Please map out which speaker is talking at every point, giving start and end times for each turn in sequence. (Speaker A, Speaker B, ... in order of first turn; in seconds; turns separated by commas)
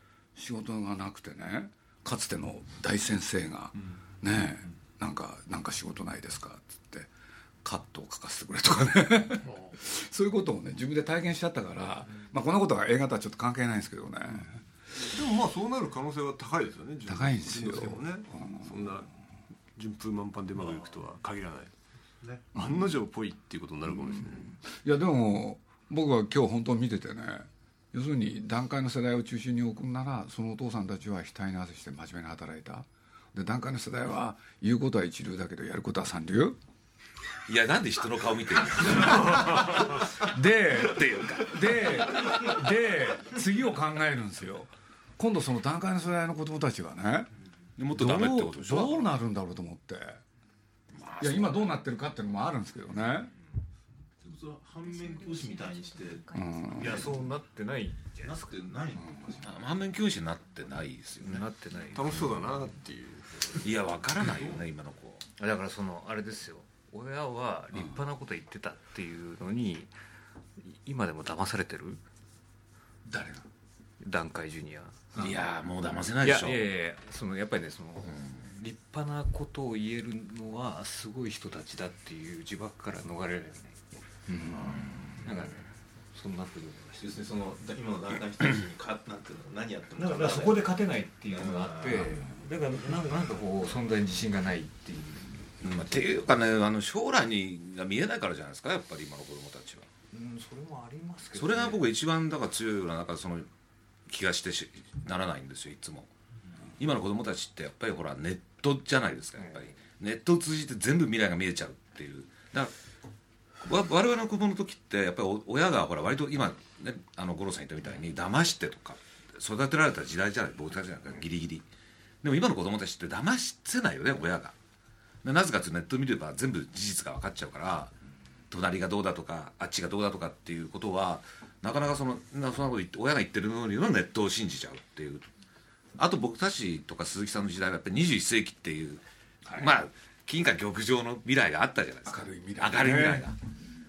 Speaker A: 0.3-7.1, Speaker A: 7.6-14.6, Speaker B: 15.0-19.1, Speaker A: 17.1-19.1, Speaker B: 19.8-21.7, Speaker C: 22.2-22.5, Speaker B: 22.5-24.6, Speaker A: 22.6-22.9, Speaker A: 24.2-36.6, Speaker D: 37.5-40.2, Speaker A: 39.0-47.3, Speaker D: 40.8-42.4, Speaker D: 47.8-49.0, Speaker A: 47.9-50.2, Speaker D: 50.9-51.8, Speaker A: 51.2-53.3, Speaker C: 54.2-57.1, Speaker A: 56.3-57.2, Speaker E: 56.7-58.5, Speaker C: 58.2-59.6, Speaker A: 59.0-59.4, Speaker D: 59.4-61.4, Speaker E: 61.2-62.3, Speaker B: 61.9-63.7, Speaker D: 63.6-65.2, Speaker E: 65.4-69.9, Speaker E: 70.6-72.0, Speaker A: 73.0-73.4, Speaker E: 74.0-75.3, Speaker D: 75.2-76.7, Speaker E: 76.2-87.2, Speaker D: 78.1-78.4, Speaker A: 84.3-84.7, Speaker C: 87.0-90.8, Speaker E: 90.0-96.2, Speaker C: 91.3-92.2, Speaker D: 95.6-99.9, Speaker E: 100.1-101.8, Speaker D: 101.3-103.5, Speaker D: 104.1-106.1, Speaker D: 106.8-112.7, Speaker E: 109.4-109.8, Speaker D: 113.6-121.6, Speaker D: 122.2-124.5, Speaker D: 125.2-127.9, Speaker D: 128.5-135.3, Speaker D: 136.0-143.4, Speaker A: 139.5-139.7, Speaker A: 142.1-143.3